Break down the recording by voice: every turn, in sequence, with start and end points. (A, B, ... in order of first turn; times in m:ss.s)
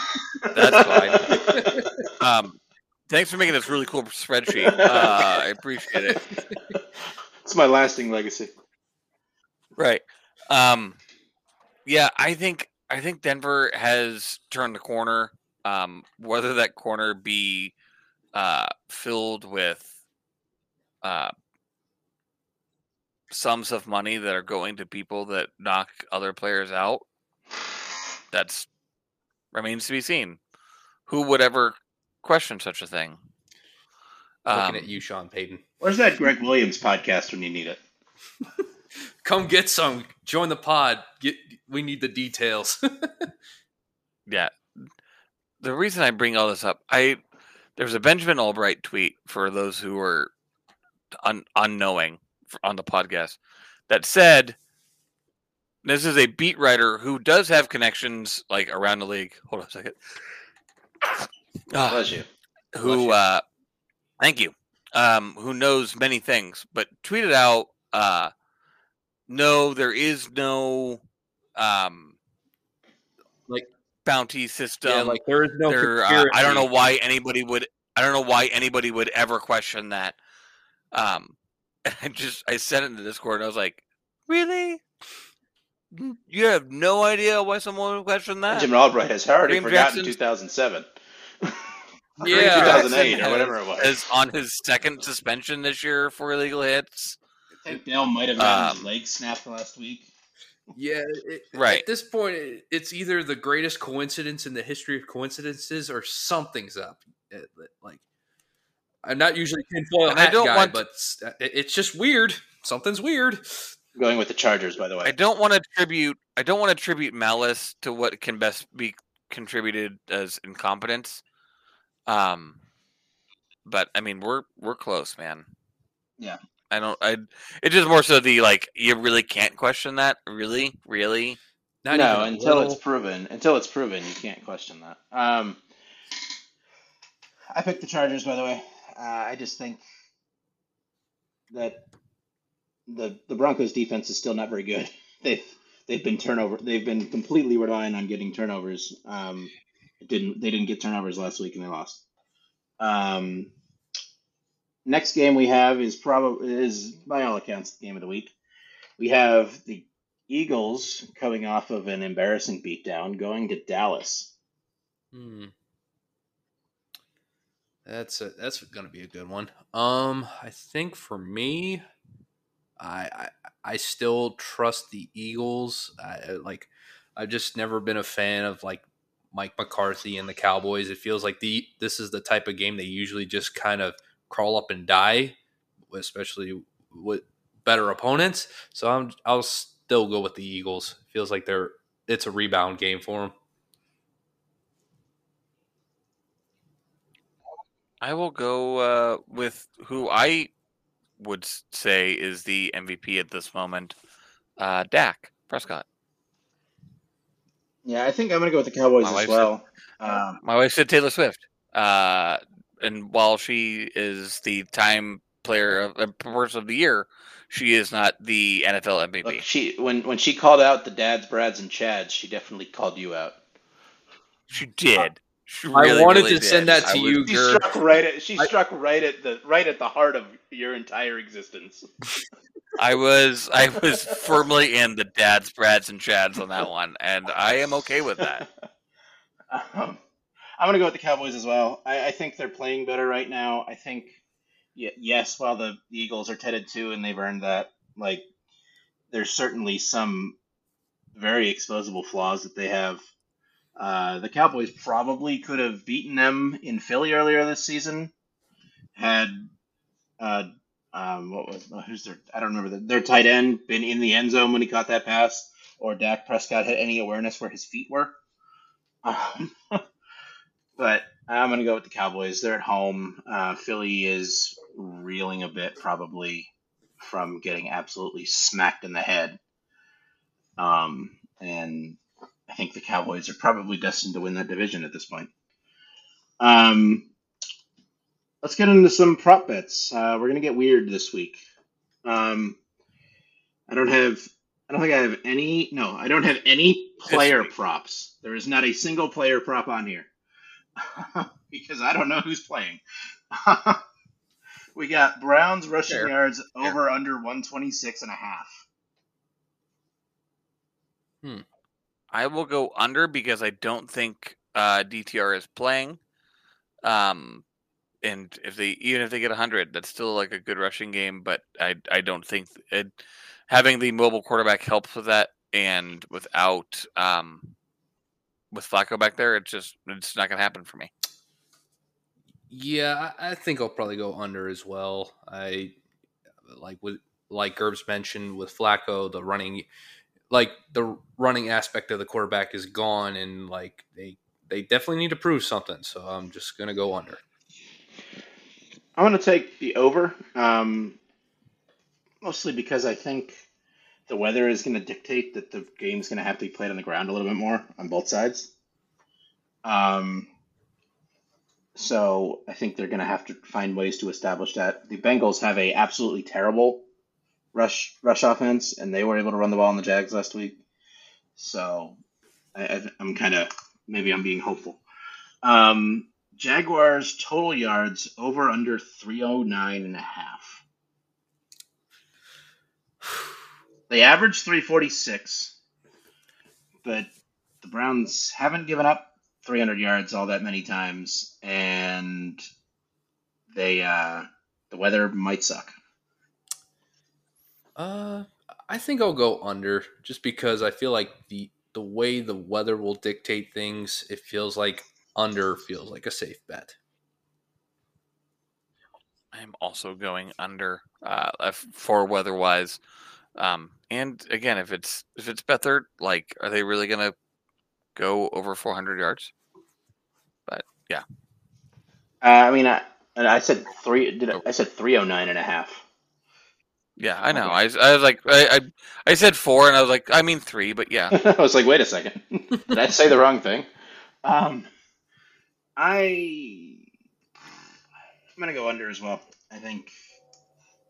0:00.4-0:01.9 A
0:00.5-0:01.4 B
0:00.7-0:01.9 C
0:02.2-0:02.6 B
0:03.1-0:06.2 B
0:04.6-0:05.4 A
0:07.4-0:08.5 A
0:09.8-0:11.0 B
0:11.9-0:17.7 B
0:18.3-0:19.9 B
0:21.0-0:21.3 B
0:23.3-0:27.0 B
0:28.3-0:28.7 B
0:29.5-0:30.4 B
0:31.1-0:33.2 B
0:34.4-0:34.9 B
0:34.5-0:35.6 C
0:35.8-0:37.8 A
0:39.2-0:43.3 C
0:44.3-0:44.9 B
0:45.6-0:47.2 B
0:47.8-0:50.3 B
0:51.2-0:53.4 B
0:53.9-0:54.6 B
0:55.8-1:00.0 B
1:01.7-1:02.1 B
1:01.9-1:02.3 A
1:02.7-1:03.4 B
1:02.8-1:03.2 C
1:04.2-1:08.3 B
1:09.3-1:11.0 B
1:11.6-1:12.2 B
1:14.0-1:20.2 B
1:14.8-1:16.7 C
1:20.9-1:21.3 B
1:21.8-1:24.8 B
1:25.9-1:28.7 B
1:28.5-1:30.9 A
1:29.4-1:30.2 B
1:31.4-1:34.0 A
1:32.2-1:33.1 C
1:32.2-1:37.2 B
1:37.6-1:40.1 A
1:38.4-1:38.9 B
1:40.8-1:48.0 C
1:41.6-1:41.8 B
1:49.0-1:53.7 C
1:50.1-1:50.8 B
1:54.0-1:55.1 A
1:55.0-2:01.2 B
2:02.1-2:02.6 B
2:03.6-2:05.5 B
2:06.7-2:11.4 B
2:11.8-2:12.8 C
2:11.9-2:15.6 A
2:17.5-2:19.8 A
2:21.5-2:21.8 A
2:22.9-2:32.0 A
2:32.8-2:33.5 A
2:34.8-2:38.3 A
2:39.0-2:44.3 A
2:45.1-2:45.5 C
2:47.9-2:51.8 C
2:52.8-3:05.4 C
3:05.9-3:13.3 C
3:18.0-3:20.5 B
3:21.2-3:24.0 B
3:24.6-3:25.8 B
3:27.8-3:30.4 A
3:29.0-3:29.5 B
3:30.4-3:39.4 B
3:39.2-3:43.4 A
3:44.5-3:47.4 B
3:45.7-3:47.6 C
3:47.3-3:51.9 A
3:52.8-3:58.5 B
3:53.8-3:54.4 A
3:58.2-3:58.4 A
3:59.5-4:00.0 A
4:00.6-4:04.2 A
4:04.8-4:08.2 A
4:09.1-4:10.4 A
4:11.2-4:13.0 A
4:13.8-4:18.1 A
4:19.0-4:19.5 A
4:20.2-4:28.2 A
4:29.0-4:29.8 A
4:30.8-4:39.4 A
4:40.6-4:45.3 A
4:46.4-4:47.1 A
4:48.4-4:51.4 A
4:52.0-4:52.6 A
4:53.7-5:00.1 A
4:57.1-4:57.5 B
5:00.8-5:03.8 A
5:04.8-5:08.6 A
5:12.1-5:16.0 B
5:16.8-5:17.4 B
5:18.0-5:27.5 B
5:28.5-5:30.9 B
5:32.5-5:35.8 C
5:36.5-5:39.7 C
5:40.3-5:47.2 C
5:49.0-5:51.0 A
5:52.2-5:53.4 A
5:54.1-5:58.5 A
5:59.6-6:00.3 A
6:01.8-6:06.8 A
6:07.5-6:10.6 A
6:11.4-6:12.0 A
6:12.6-6:14.8 A
6:15.4-6:20.6 A
6:23.9-6:25.5 A
6:26.8-6:32.4 A
6:33.5-6:35.8 A
6:37.8-6:46.8 C
6:49.3-6:52.8 B
6:53.4-6:57.1 B
6:58.0-6:59.3 B
7:00.5-7:01.0 B
7:02.2-7:05.8 A
7:07.0-7:11.2 B
7:07.3-7:07.6 A
7:11.1-7:13.7 A
7:14.2-7:14.7 A
7:15.8-7:16.9 A
7:18.4-7:20.0 A